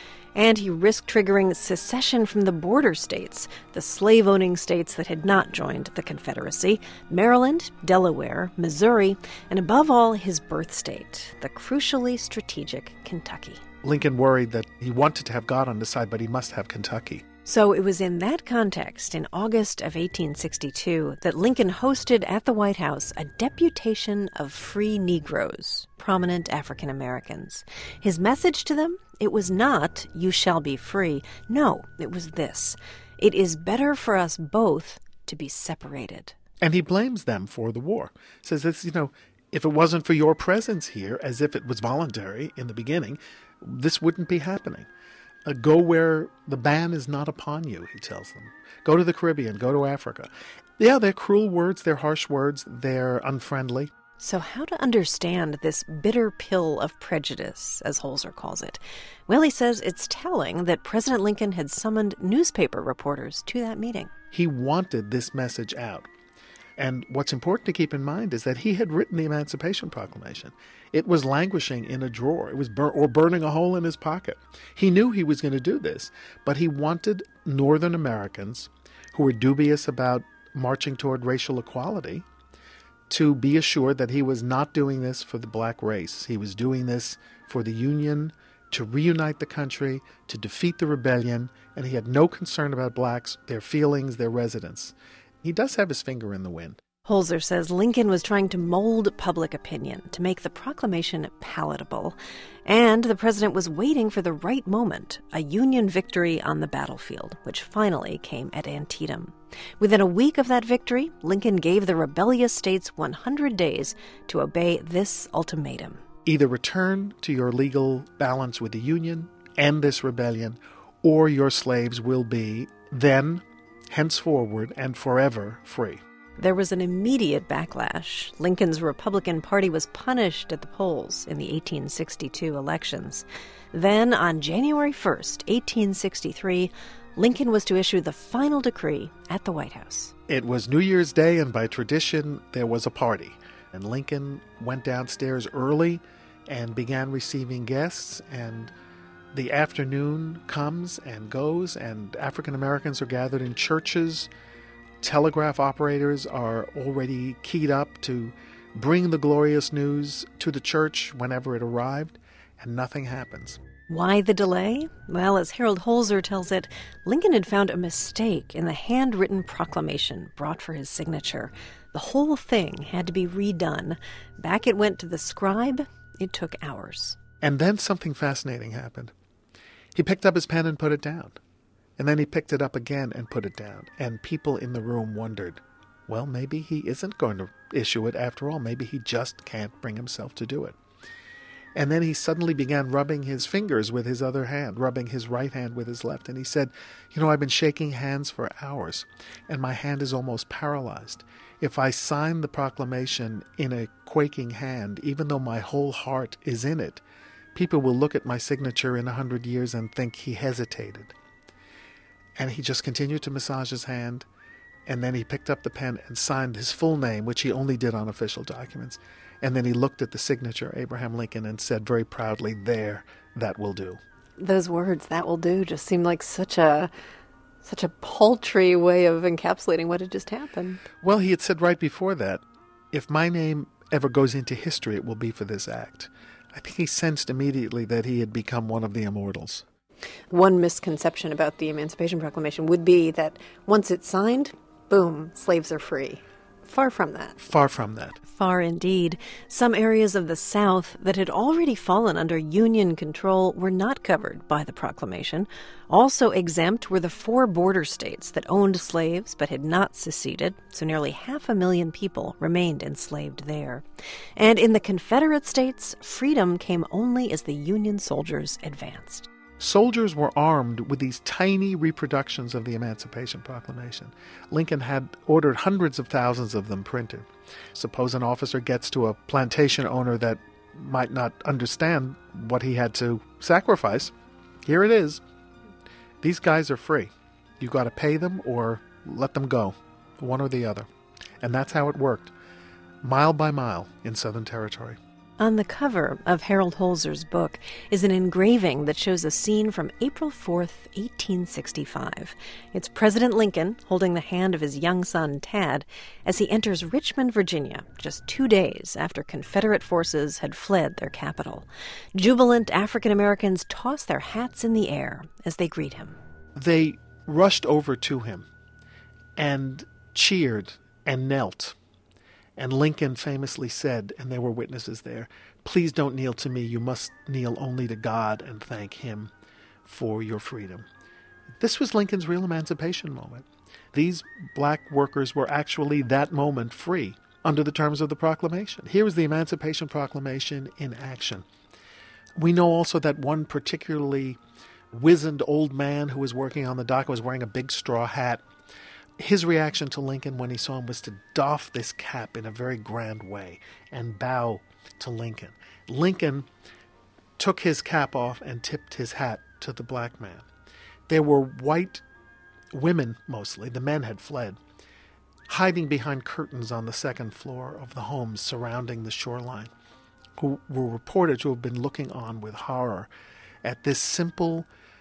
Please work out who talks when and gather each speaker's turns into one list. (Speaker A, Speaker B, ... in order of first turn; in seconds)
Speaker A: 0.3-13.6, 17.4-36.4, 54.2-64.1, 97.0-116.0, 126.4-140.1, 163.9-177.2, 248.3-263.9, 264.4-269.3, 295.4-316.2
Speaker B: 13.8-17.2, 36.6-44.9, 45.5-53.9, 64.3-66.1, 66.8-82.2, 83.1-96.8, 116.3-126.0, 140.3-148.7, 149.3-154.3, 155.0-163.6, 177.4-179.1, 179.9-181.4, 182.0-190.8, 191.8-207.0, 207.5-211.1, 212.4-214.3, 214.9-224.0, 231.0-239.7, 247.4-248.2, 269.6-284.1, 284.6-285.2, 286.2-290.9, 291.4-292.3, 293.0-295.0, 316.6-318.5, 319.4-321.8, 322.6-329.3, 329.9-330.9, 331.6-341.4, 342.4-344.4, 344.9-348.4, 349.2-356.5, 357.4-360.5, 361.1-362.0, 362.7-364.6, 365.5-369.7, 370.4-373.1, 373.6-374.7